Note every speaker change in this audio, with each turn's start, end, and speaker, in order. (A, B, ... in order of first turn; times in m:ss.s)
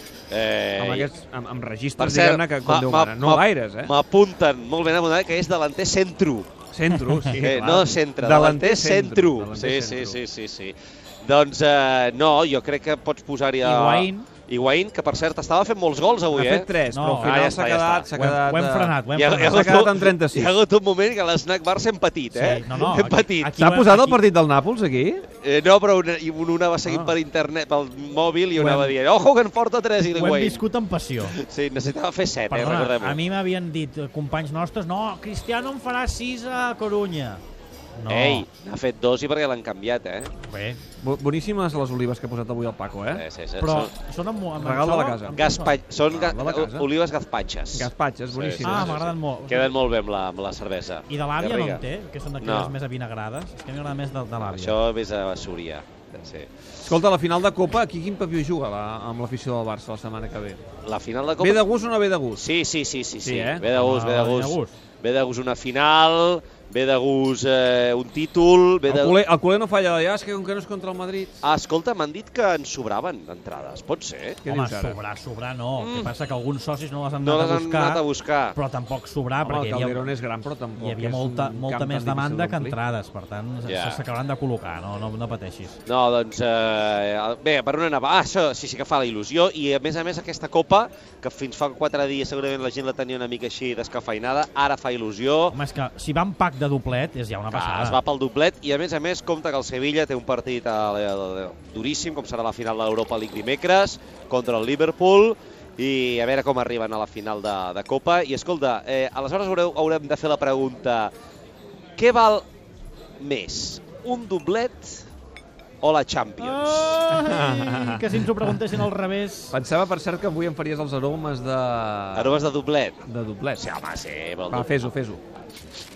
0:00.3-0:01.1 A
0:00.8-0:03.9 B
0:02.0-0:06.5 A
0:06.7-0:10.2 B
0:07.0-0:07.4 C
0:07.4-0:16.7 A
0:13.6-0:14.3 C
0:16.3-0:20.5 B
0:16.9-0:17.4 C
0:17.2-0:18.1 A
0:18.1-0:19.7 C
0:19.1-0:23.6 A
0:22.3-0:24.2 C
0:23.5-0:25.2 B
0:25.4-0:30.6 A
0:26.9-0:27.1 C
0:28.6-0:28.9 B
0:28.6-0:28.9 C
0:30.1-0:31.4 C
0:31.2-0:33.2 A
0:32.5-0:37.4 C
0:38.0-0:38.4 C
0:38.1-0:40.3 A
0:40.4-0:40.8 C
0:41.0-0:43.2 B
0:43.1-0:43.9 A
0:43.6-0:45.8 C
0:44.6-0:45.4 B
0:45.3-0:49.0 A
0:46.0-0:46.9 B
0:47.7-0:49.1 B
0:48.6-0:49.7 C
0:49.5-0:51.8 A
0:51.1-0:54.8 C
0:52.4-0:52.7 A
0:54.4-0:56.5 A
0:56.8-1:00.6 B
1:00.8-1:01.6 A
1:01.4-1:02.4 B
1:02.4-1:09.1 A
1:03.2-1:03.8 B
1:03.7-1:04.7 C
1:08.9-1:11.4 B
1:11.4-1:14.4 A
1:14.4-1:15.0 B
1:14.5-1:18.0 C
1:15.8-1:16.1 A
1:17.2-1:18.6 A
1:18.5-1:20.1 C
1:19.4-1:22.8 B
1:20.8-1:25.8 C
1:23.6-1:24.0 A
1:25.8-1:35.6 A
1:35.5-1:38.0 C
1:37.5-1:51.1 A
1:52.0-1:52.4 A
1:53.2-1:55.1 A
1:55.8-1:57.0 A
1:56.4-1:59.5 C
1:57.1-1:58.6 B
1:59.5-2:02.4 B
2:02.1-2:03.0 A
2:03.0-2:03.7 B
2:03.6-2:04.7 A
2:04.5-2:05.2 B